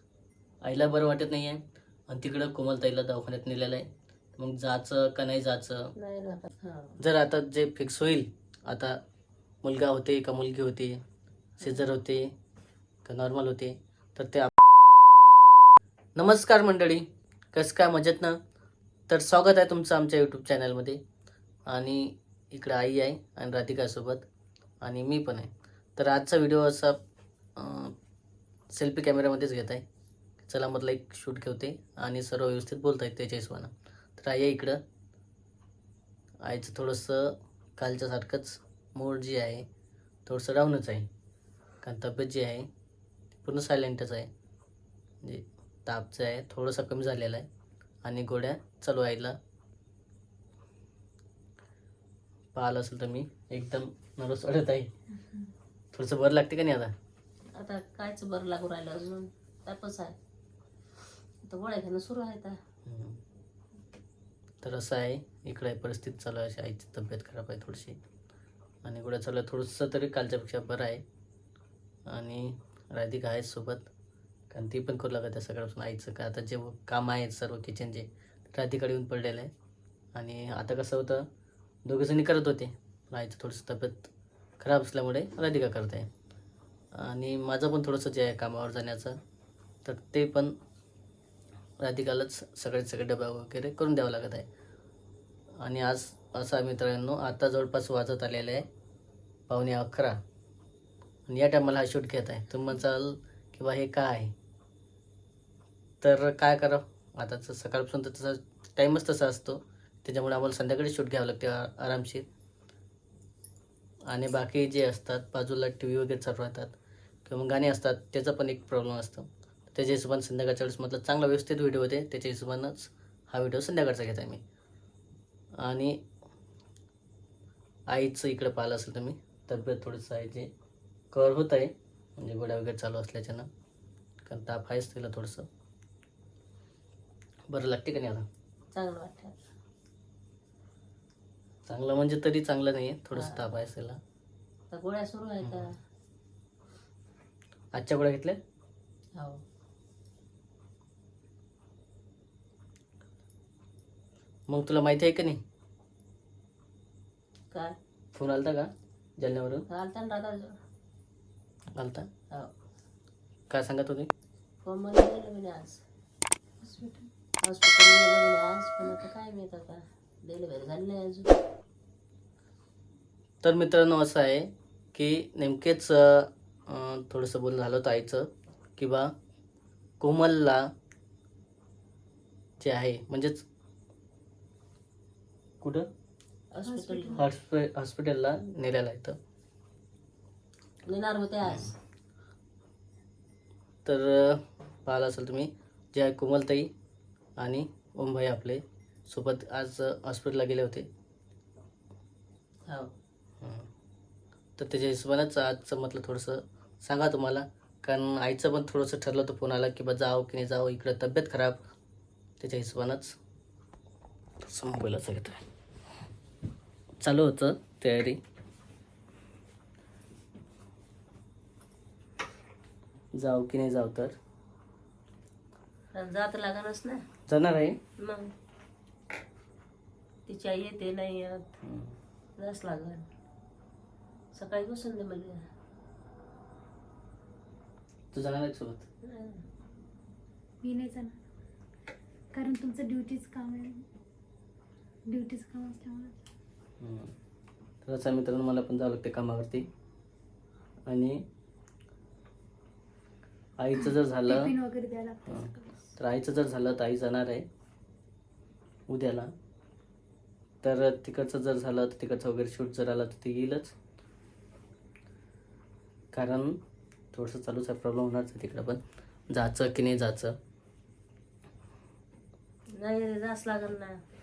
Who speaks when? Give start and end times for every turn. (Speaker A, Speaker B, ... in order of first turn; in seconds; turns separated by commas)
Speaker A: 0.6-5.9, Speaker B: 6.0-7.0, Speaker A: 7.0-9.0, Speaker A: 9.6-11.0, Speaker A: 11.6-12.3, Speaker B: 11.6-11.9, Speaker A: 13.1-15.3, Speaker A: 16.1-18.4, Speaker A: 19.1-21.0, Speaker A: 21.7-24.3, Speaker A: 24.8-27.0, Speaker A: 27.6-28.0, Speaker A: 28.7-29.8, Speaker A: 30.4-34.8, Speaker A: 36.4-39.7, Speaker A: 40.3-41.1, Speaker A: 41.8-42.7, Speaker A: 43.4-44.3, Speaker A: 45.2-47.5, Speaker A: 48.0-49.4, Speaker A: 52.5-54.9, Speaker A: 55.9-56.9, Speaker B: 57.5-60.2, Speaker B: 61.5-62.6, Speaker A: 62.9-63.2, Speaker A: 64.6-68.0, Speaker A: 68.8-71.0, Speaker A: 72.1-73.9, Speaker A: 74.5-79.5, Speaker A: 80.1-81.3, Speaker A: 81.8-86.1, Speaker A: 86.9-89.2, Speaker A: 89.8-90.5, Speaker A: 91.8-94.5, Speaker A: 95.6-98.7, Speaker A: 99.5-100.2, Speaker A: 101.3-104.3, Speaker A: 106.0-112.3, Speaker A: 114.1-116.7, Speaker A: 117.2-124.4, Speaker A: 125.6-126.0, Speaker A: 127.9-130.5, Speaker A: 131.1-133.5, Speaker A: 134.2-135.5, Speaker A: 137.5-138.3, Speaker B: 138.7-139.4, Speaker A: 141.7-144.0, Speaker B: 143.1-143.5, Speaker B: 144.7-145.7, Speaker A: 145.4-145.7, Speaker A: 147.7-148.4, Speaker B: 149.2-149.4, Speaker A: 154.5-155.4, Speaker B: 157.5-157.8, Speaker A: 158.1-159.7, Speaker B: 159.7-160.6, Speaker A: 161.8-162.1, Speaker A: 163.5-164.1, Speaker B: 164.6-165.8, Speaker C: 166.6-167.1, Speaker B: 167.4-171.3, Speaker A: 173.4-179.1, Speaker A: 180.0-180.7, Speaker A: 182.6-183.5, Speaker A: 185.6-185.9, Speaker B: 186.5-187.3, Speaker C: 186.7-187.2, Speaker A: 187.1-189.2, Speaker B: 190.9-191.8, Speaker A: 191.5-191.7, Speaker A: 193.8-196.7, Speaker A: 197.4-200.9, Speaker B: 202.7-202.9, Speaker A: 203.4-203.7, Speaker A: 204.6-211.6, Speaker A: 212.4-213.2, Speaker A: 214.4-215.4, Speaker A: 217.0-218.2, Speaker A: 223.1-224.2, Speaker B: 225.9-227.1, Speaker A: 227.3-227.8, Speaker B: 228.0-228.3, Speaker B: 230.3-231.6, Speaker A: 231.6-232.0, Speaker B: 232.4-233.1, Speaker B: 234.3-235.4, Speaker A: 238.1-238.9, Speaker B: 239.0-239.4, Speaker C: 240.6-241.2, Speaker C: 242.3-243.9, Speaker C: 245.1-246.2, Speaker A: 246.8-247.2, Speaker A: 247.8-249.7, Speaker A: 250.9-251.2, Speaker A: 253.6-254.5, Speaker C: 254.2-255.9, Speaker A: 255.3-257.5, Speaker A: 258.9-259.3, Speaker A: 260.6-263.8, Speaker A: 266.1-266.6, Speaker A: 267.1-270.4, Speaker B: 272.8-274.0